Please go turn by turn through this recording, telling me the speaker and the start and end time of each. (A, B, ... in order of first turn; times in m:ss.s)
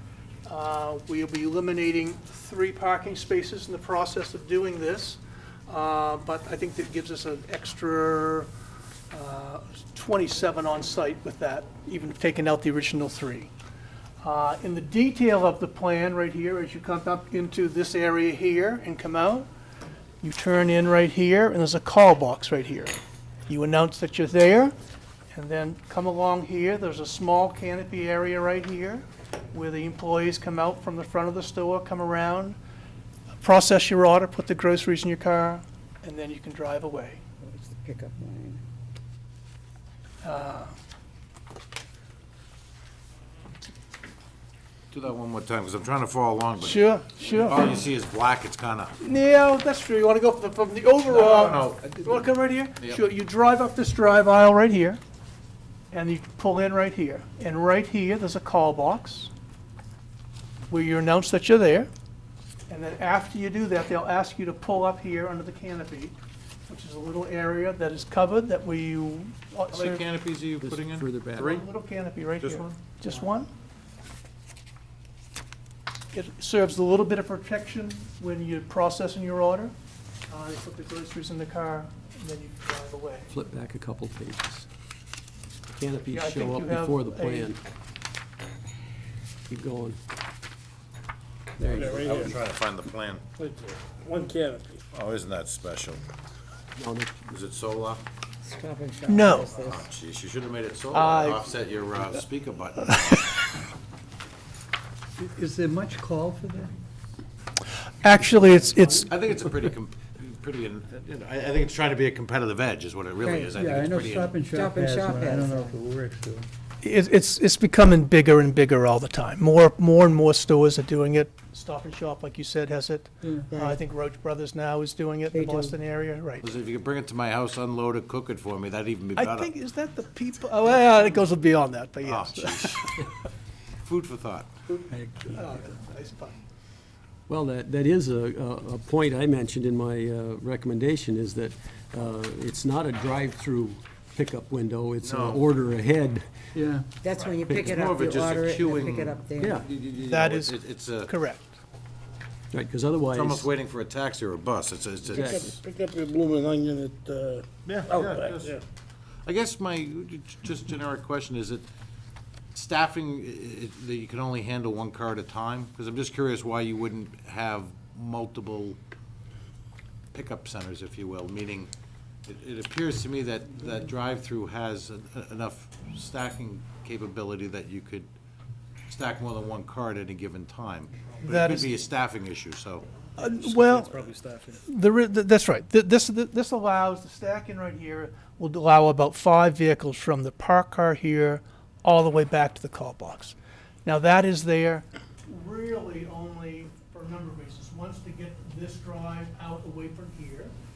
0:00.4-0:08.5 A
0:09.1-0:13.5 A
0:14.2-0:19.5 A
0:20.2-0:23.0 A
0:23.5-0:24.7 A
0:25.3-0:32.6 A
0:33.4-0:37.2 A
0:37.4-0:38.6 B
0:40.2-0:40.7 A
0:44.9-0:49.0 C
0:46.6-0:47.7 A
0:49.0-0:55.0 A
0:51.1-0:53.0 C
0:55.9-0:59.3 A
1:00.7-1:01.9 A
1:02.7-1:06.2 A
1:06.7-1:10.0 A
1:09.7-1:11.6 C
1:10.6-1:11.5 D
1:11.3-1:13.5 A
1:12.4-1:12.8 C
1:16.1-1:19.7 A
1:20.3-1:23.3 A
1:23.3-1:24.7 D
1:25.7-1:27.6 D
1:26.1-1:27.5 A
1:29.5-1:30.0 D
1:31.6-1:32.0 D
1:31.7-1:32.4 E
1:31.7-1:33.2 C
1:33.4-1:34.8 E
1:34.9-1:36.0 C
1:36.8-1:37.2 D
1:37.3-1:38.0 C
1:38.4-1:39.9 B
1:39.1-1:39.5 A
1:39.6-1:43.4 C
1:40.9-1:41.4 A
1:45.2-1:46.8 F
1:48.0-1:49.1 A
1:49.1-1:54.4 C
1:53.2-1:53.5 B
1:53.5-1:56.5 F
1:54.5-1:55.8 B
1:56.8-2:06.5 A
2:03.2-2:03.5 F
2:03.5-2:03.8 B
2:05.3-2:05.7 B
2:06.4-2:09.5 C
2:09.2-2:13.0 A
2:12.0-2:13.0 C
2:13.8-2:14.5 C
2:14.9-2:15.6 F
2:15.2-2:16.4 A
2:17.3-2:26.3 D
2:25.0-2:25.4 C
2:26.5-2:26.9 F
2:27.0-2:29.7 B
2:27.1-2:31.1 C
2:29.4-2:29.6 D
2:30.1-2:31.6 A
2:32.5-2:33.5 D
2:33.1-2:35.6 C
2:35.0-2:35.6 D
2:35.1-2:38.6 E
2:37.6-2:38.6 C
2:39.2-2:41.6 C
2:42.5-2:48.8 C
2:50.1-2:51.7 C
2:52.2-2:58.1 C
2:58.9-3:02.9 C
3:01.2-3:01.7 A
3:03.2-3:04.1 A
3:03.7-3:04.3 E
3:04.6-3:20.5 A